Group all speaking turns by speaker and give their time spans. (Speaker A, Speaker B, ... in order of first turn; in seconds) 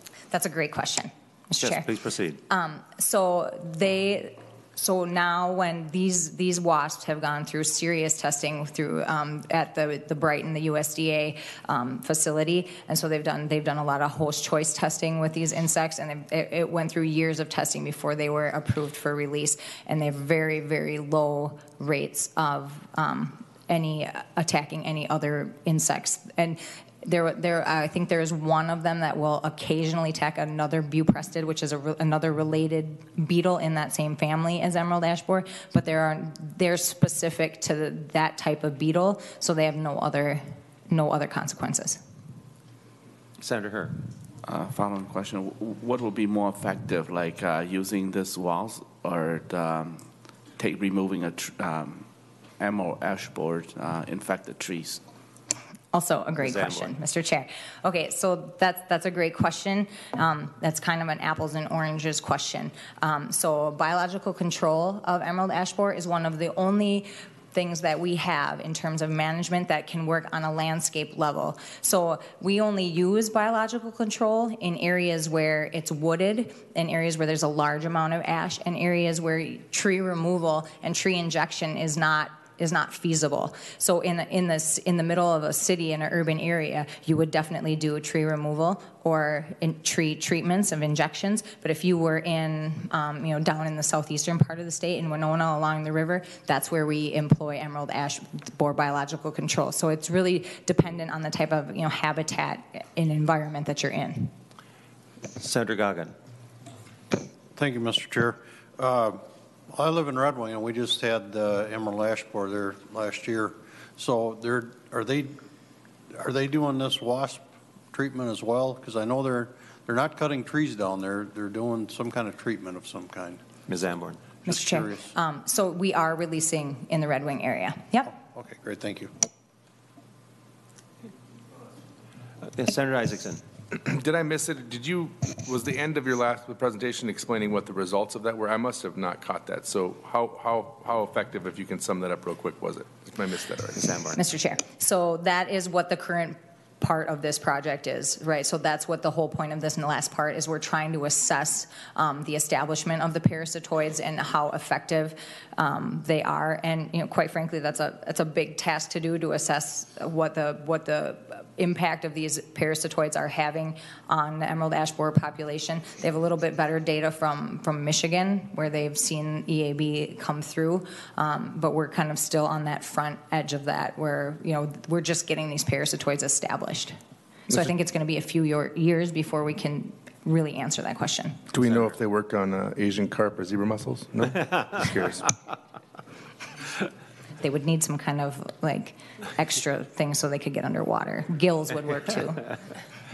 Speaker A: 0.3-1.9, 2.5-42.0, 55.9-104.3, 124.5-128.1, 144.2-176.9, 177.5-181.4, 187.4-192.5
Speaker B: 1.6-2.4, 43.4-44.0, 56.4-56.9, 105.4-106.2, 123.7-124.2, 132.5-133.4, 143.8-144.2
Speaker C: 44.4-55.0
Speaker D: 107.5-115.4, 116.1-123.4, 124.5-125.1, 128.2-129.1
Speaker E: 133.7-144.0, 181.5-185.3